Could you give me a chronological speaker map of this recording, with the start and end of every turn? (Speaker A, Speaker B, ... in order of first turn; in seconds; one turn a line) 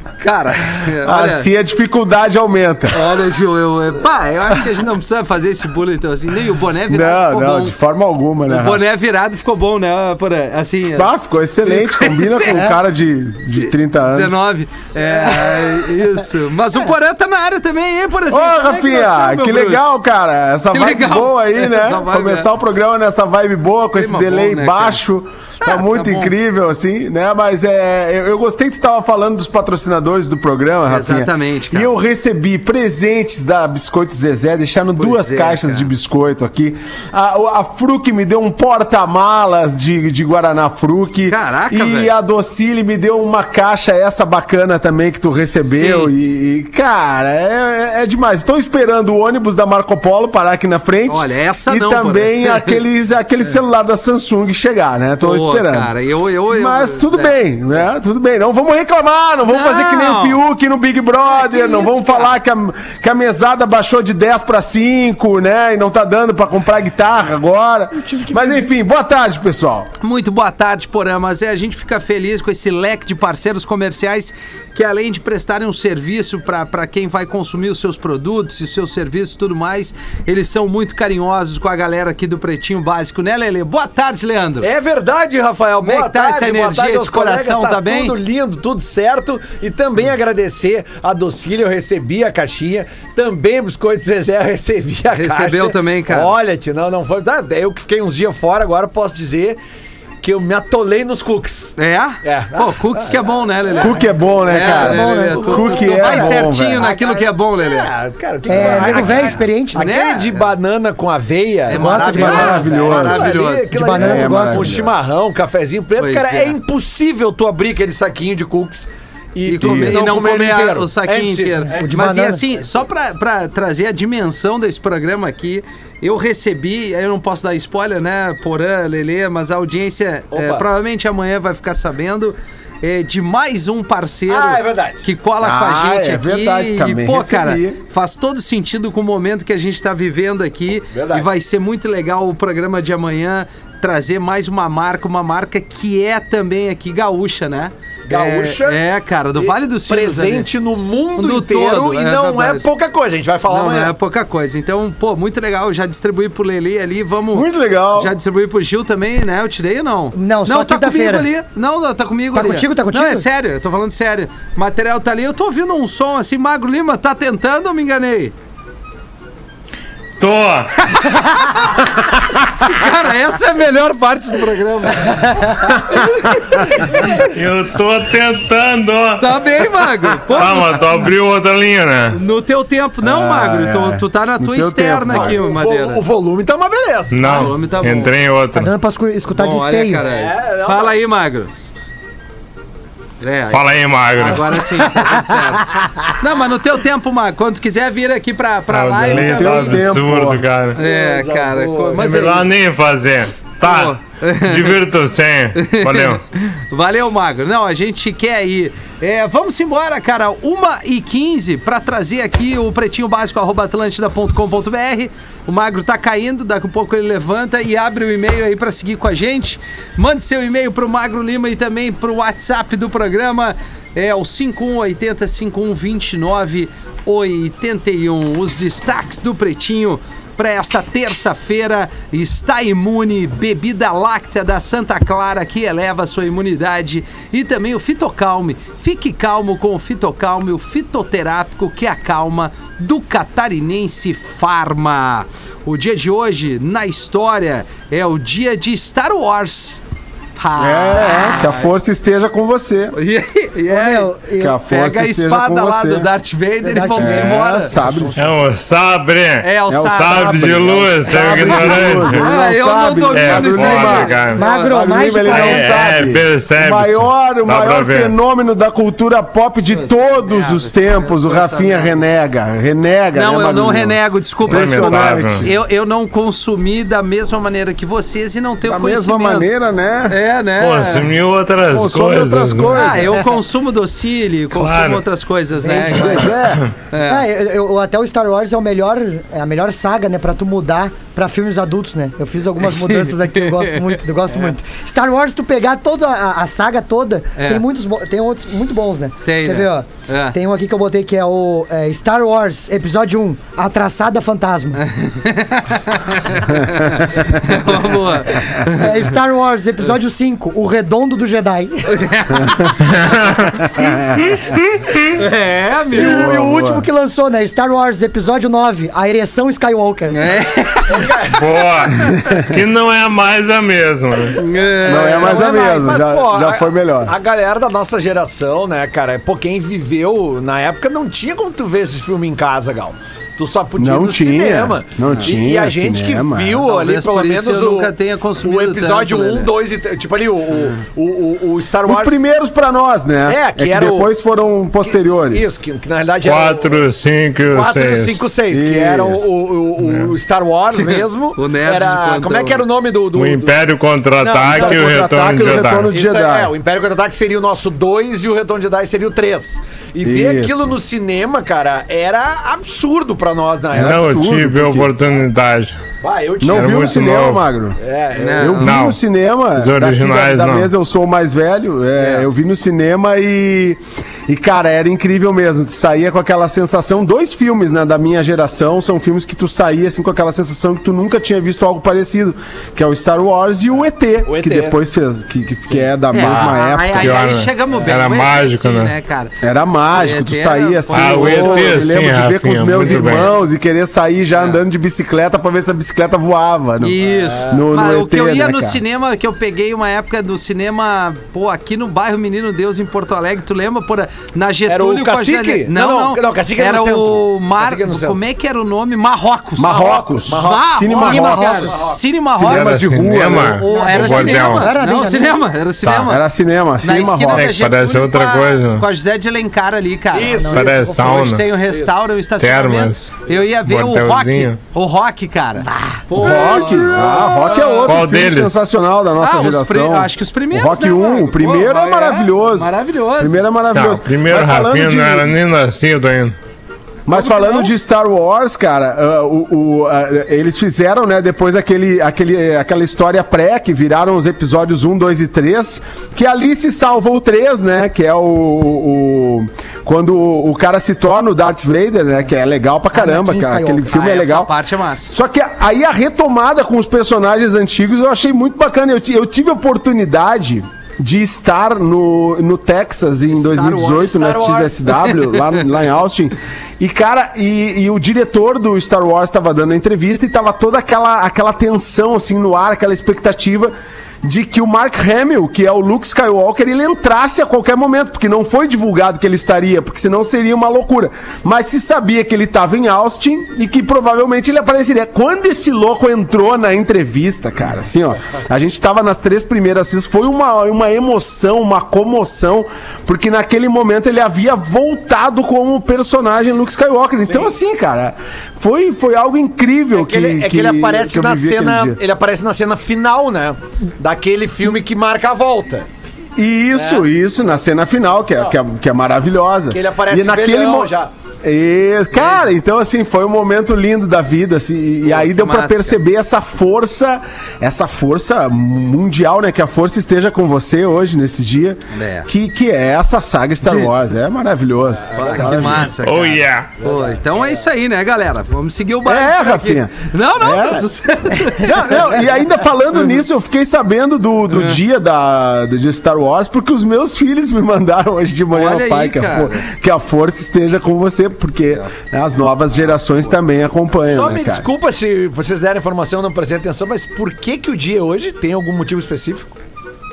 Speaker A: 0.2-1.5
Speaker B: 1.0-3.0
Speaker A: 2.9-7.7
Speaker B: 6.9-8.8
Speaker A: 8.5-11.1
Speaker B: 10.9-14.4
Speaker A: 11.6-12.6
Speaker C: 12.5-12.8
Speaker A: 13.6-19.9
Speaker C: 15.3-15.7
Speaker B: 18.3-55.9
Speaker A: 20.7-22.5
Speaker A: 23.9-25.0
Speaker A: 25.6-26.3
Speaker A: 30.9-31.9
Speaker A: 35.0-35.9
Speaker A: 41.3-42.1
Speaker A: 45.7-46.1
Speaker A: 51.1-52.8
Speaker A: 55.2-57.8
Speaker B: 56.5-69.9
Speaker A: 59.5-60.4
Speaker C: 61.6-62.1
Speaker C: 68.0-68.7
Speaker A: 70.0-84.7
Speaker D: 84.6-99.6
Speaker A: 85.8-88.2
Speaker A: 95.1-96.3
Speaker D: 100.2-121.8
Speaker A: 101.8-107.9
Speaker B: 103.8-106.8
Speaker C: 104.6-105.7
Speaker C: 108.5-109.9
Speaker B: 108.5-109.4
Speaker A: 108.5-110.5
Speaker A: 111.7-113.8
Speaker C: 111.7-112.7
Speaker B: 112.1-114.9
Speaker C: 113.7-114.7
Speaker A: 116.0-116.5
Speaker A: 119.5-150.5
Speaker B: 119.6-120.2
Speaker C: 121.7-122.4
Speaker D: 130.3-130.7
Speaker D: 134.3-135.0
Speaker B: 135.4-137.8
Speaker D: 140.9-141.3
Speaker D: 148.1-148.8
Speaker D: 149.3-153.9
Speaker A: 151.2-152.7
Speaker A: 153.5-168.3
Speaker B: 157.3-158.1
Speaker C: 160.1-161.3
Speaker C: 162.3-163.2
Speaker E: 170.2-170.9
Speaker A: 170.9-171.9
Speaker A: 172.6-177.2
Speaker E: 176.7-179.4
Speaker A: 179.2-180.8
Speaker E: 180.3-182.2
Speaker A: 182.1-186.0
Speaker B: 183.0-185.4
Speaker D: 185.1-187.2
Speaker E: 187.1-188.7
Speaker A: 187.2-188.1
Speaker C: 188.5-190.0
Speaker A: 189.3-191.5
Speaker D: 190.0-191.0
Speaker A: 193.2-199.9
Speaker E: 193.5-194.6
Speaker E: 198.7-200.8
Speaker B: 199.0-200.4
Speaker A: 200.7-202.4
Speaker D: 200.8-202.0
Speaker E: 202.0-206.2
Speaker A: 203.6-204.8
Speaker A: 205.5-249.8
Speaker A: 250.4-251.6
Speaker B: 250.6-253.0
Speaker A: 252.9-254.1
Speaker C: 253.7-254.6
Speaker B: 254.4-256.1
Speaker A: 254.7-257.7
Speaker C: 256.6-258.3
Speaker B: 256.9-258.2
Speaker E: 258.1-262.2
Speaker A: 259.4-260.4
Speaker B: 259.7-264.1
Speaker C: 261.2-262.0
Speaker A: 262.1-265.6
Speaker E: 263.1-264.4
Speaker C: 264.3-265.7
Speaker B: 264.7-275.5
Speaker E: 265.3-268.1
Speaker A: 269.7-272.0
Speaker A: 273.1-279.5
Speaker E: 274.4-275.4
Speaker B: 278.6-280.2
Speaker A: 280.1-281.1
Speaker E: 280.6-283.0
Speaker B: 281.7-283.2
Speaker A: 282.7-286.4
Speaker E: 284.5-285.0
Speaker C: 285.6-286.4
Speaker B: 285.9-286.6
Speaker A: 286.9-287.3
Speaker C: 287.0-304.8
Speaker A: 292.6-294.5
Speaker A: 297.4-297.6
Speaker A: 299.2-300.4
Speaker A: 304.8-309.0
Speaker C: 308.6-312.4
Speaker A: 311.9-312.6
Speaker E: 312.9-313.6
Speaker B: 313.5-314.2
Speaker E: 314.2-315.0
Speaker A: 315.1-316.3
Speaker B: 315.9-316.9
Speaker C: 315.9-320.2
Speaker A: 320.1-321.3
Speaker D: 320.9-321.4
Speaker E: 321.4-324.4
Speaker A: 324.4-325.7
Speaker B: 324.8-327.1
Speaker D: 324.9-342.2
Speaker B: 333.8-336.6
Speaker A: 336.6-339.6
Speaker B: 341.8-345.6
Speaker D: 343.2-344.1
Speaker D: 345.3-346.8
Speaker E: 346.2-348.2
Speaker D: 347.5-353.6
Speaker B: 348.5-349.3
Speaker E: 349.8-350.1
Speaker A: 350.7-352.6
Speaker E: 353.1-355.9
Speaker D: 354.2-355.1
Speaker B: 354.4-356.5
Speaker D: 355.9-364.1
Speaker B: 360.0-360.7
Speaker B: 363.7-364.9
Speaker E: 363.7-365.8
Speaker D: 366.0-366.9
Speaker B: 366.4-367.8
Speaker E: 366.5-367.4
Speaker D: 367.8-368.6
Speaker A: 368.1-368.7
Speaker B: 368.3-387.2
Speaker E: 368.6-369.0
Speaker E: 369.6-370.7
Speaker D: 384.2-384.8
Speaker A: 386.1-389.3
Speaker E: 386.2-388.9
Speaker B: 389.4-398.8
Speaker A: 389.9-391.9
Speaker E: 390.9-393.3
Speaker A: 392.9-393.3
Speaker A: 396.8-412.9
Speaker D: 397.0-397.6
Speaker D: 404.7-408.2
Speaker B: 409.6-411.6
Speaker D: 409.6-413.1
Speaker C: 411.0-411.8
Speaker B: 412.4-413.6
Speaker E: 412.4-414.7
Speaker A: 413.5-416.2
Speaker C: 413.7-415.5
Speaker D: 414.1-414.4
Speaker E: 415.8-416.1
Speaker B: 416.1-417.6
Speaker A: 416.8-428.0
Speaker E: 417.3-418.9
Speaker D: 420.1-420.9
Speaker C: 420.2-421.0
Speaker E: 420.5-421.4
Speaker D: 421.6-422.0
Speaker E: 422.4-424.6
Speaker C: 425.7-426.0
Speaker B: 426.1-435.3
Speaker D: 427.0-427.5
Speaker E: 427.8-428.6
Speaker A: 429.2-433.4
Speaker E: 433.7-436.3
Speaker B: 437.1-454.5
Speaker A: 437.1-437.7
Speaker C: 452.9-453.9
Speaker A: 453.9-455.1
Speaker B: 455.1-502.0
Speaker A: 463.3-464.5
Speaker D: 464.1-464.7
Speaker A: 465.0-465.6
Speaker D: 497.2-497.5
Speaker D: 499.9-505.9
Speaker B: 506.4-510.9
Speaker D: 506.8-507.0
Speaker D: 509.7-511.1
Speaker B: 511.4-525.9
Speaker A: 515.1-516.0
Speaker A: 521.9-522.3
Speaker D: 525.1-525.6
Speaker A: 525.1-532.3
Speaker E: 526.0-526.7
Speaker D: 526.8-527.6
Speaker B: 529.0-530.9
Speaker B: 531.4-544.7
Speaker A: 534.5-534.8
Speaker A: 538.5-539.6
Speaker A: 541.7-542.0
Speaker D: 544.0-549.5